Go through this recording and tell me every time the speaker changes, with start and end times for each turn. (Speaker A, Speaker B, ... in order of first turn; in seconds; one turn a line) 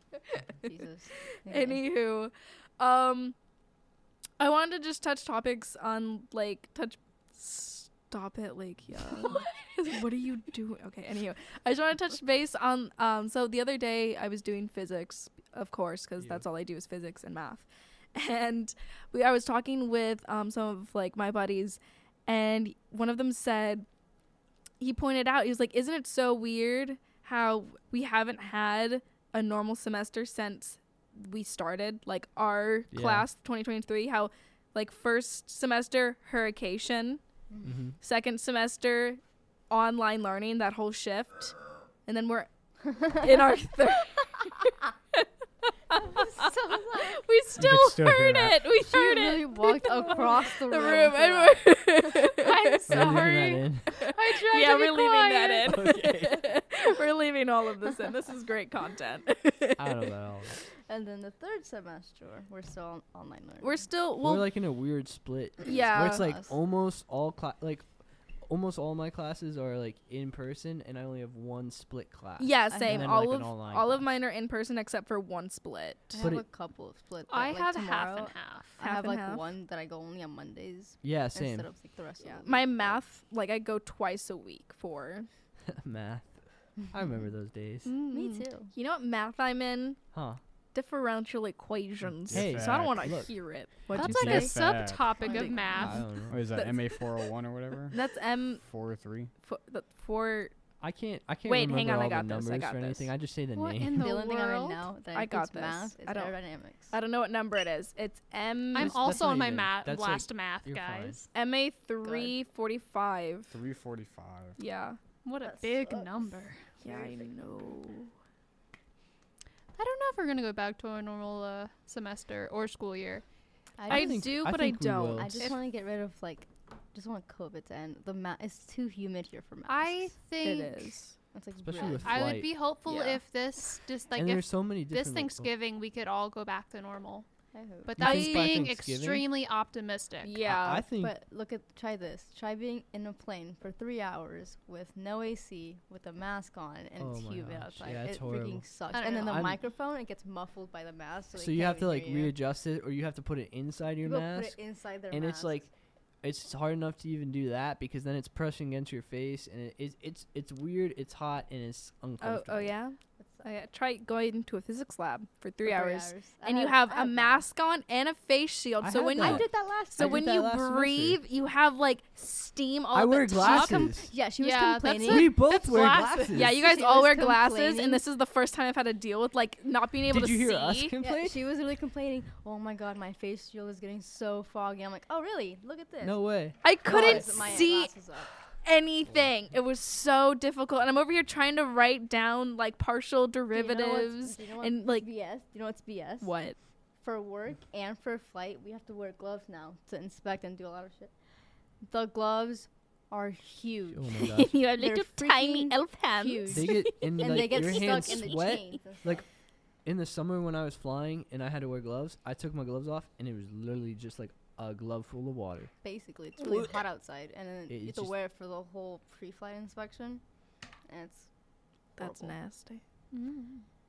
Speaker A: 0.6-1.8
Speaker B: 1.4-3.4
Speaker B: 4.4-23.9
Speaker B: 24.8-37.2
Speaker C: 32.9-33.3
Speaker C: 37.6-38.0
Speaker B: 38.0-52.8
Speaker A: 46.0-47.2
Speaker D: 47.6-48.7
Speaker A: 48.8-52.2
Speaker E: 52.4-55.8
Speaker C: 52.9-54.1
Speaker B: 53.9-60.1
Speaker C: 55.7-56.5
Speaker C: 59.8-60.6
Speaker A: 60.8-63.9
Speaker B: 63.6-64.5
Speaker C: 64.2-67.9
Speaker B: 65.6-66.3
Speaker A: 65.7-66.5
Speaker C: 68.4-74.1
Speaker B: 72.4-76.3
Speaker A: 72.7-73.1
Speaker A: 76.1-83.0
Speaker C: 76.2-76.5
Speaker E: 77.3-78.8
Speaker B: 78.8-79.5
Speaker C: 81.0-81.7
Speaker B: 82.2-85.3
Speaker C: 85.7-86.4
Speaker C: 86.9-88.0
Speaker E: 87.8-88.5
Speaker A: 88.1-88.7
Speaker B: 88.7-90.0
Speaker C: 90.1-90.4
Speaker B: 90.7-94.5
Speaker D: 92.0-93.3
Speaker C: 92.3-93.5
Speaker E: 93.9-96.0
Speaker D: 93.9-95.2
Speaker A: 95.2-96.1
Speaker C: 95.8-96.5
Speaker D: 96.3-98.0
Speaker B: 96.5-97.1
Speaker B: 97.9-98.6
Speaker D: 98.6-99.3
Speaker B: 99.4-100.5
Speaker C: 100.8-104.1
Speaker B: 101.5-103.1
Speaker E: 103.5-104.8
Speaker A: 103.9-106.9
Speaker B: 105.1-106.4
Speaker B: 106.9-109.1
Speaker E: 108.7-111.3
Speaker C: 108.8-111.2
Speaker B: 111.3-113.5
Speaker A: 112.0-112.3
Speaker D: 113.5-114.6
Speaker B: 114.6-115.0
Speaker E: 115.2-116.6
Speaker A: 115.4-117.7
Speaker B: 116.8-118.1
Speaker E: 119.8-123.2
Speaker A: 123.8-124.3
Speaker C: 123.9-125.5
Speaker B: 123.9-125.5
Speaker A: 125.2-130.1
Speaker E: 129.7-130.9
Speaker B: 130.4-131.2
Speaker A: 131.3-132.3
Speaker C: 131.6-132.5
Speaker E: 131.8-137.3
Speaker B: 132.9-133.2
Speaker C: 134.2-135.5
Speaker A: 137.5-138.0
Speaker E: 137.8-140.4
Speaker C: 138.0-139.3
Speaker B: 138.0-138.7
Speaker B: 140.2-140.8
Speaker C: 140.4-141.1
Speaker A: 141.0-152.3
Speaker C: 147.0-149.6
Speaker E: 148.9-149.4
Speaker C: 151.3-154.6
Speaker A: 154.0-155.6
Speaker C: 155.1-155.7
Speaker C: 156.2-162.8
Speaker B: 162.2-173.9
Speaker A: 163.2-163.4
Speaker A: 165.6-167.4
Speaker C: 168.8-171.2
Speaker A: 169.2-170.2
Speaker C: 172.9-174.1
Speaker A: 173.4-178.0
Speaker E: 174.3-176.4
Speaker C: 175.0-176.6
Speaker B: 176.3-180.9
Speaker C: 180.1-181.5
Speaker A: 181.0-188.3
Speaker C: 186.0-187.6
Speaker B: 186.6-188.0
Speaker B: 188.6-195.1
Speaker A: 193.5-196.3
Speaker B: 196.2-196.6
Speaker A: 197.0-201.1
Speaker A: 201.8-209.2
Speaker C: 203.9-204.6
Speaker B: 204.2-208.3
Speaker C: 206.5-209.2
Speaker C: 209.8-215.7
Speaker A: 215.8-220.2
Speaker C: 216.4-216.8
Speaker C: 217.7-218.1
Speaker A: 220.9-221.3
Speaker A: 222.0-222.4
Speaker B: 222.0-222.8
Speaker E: 223.1-223.7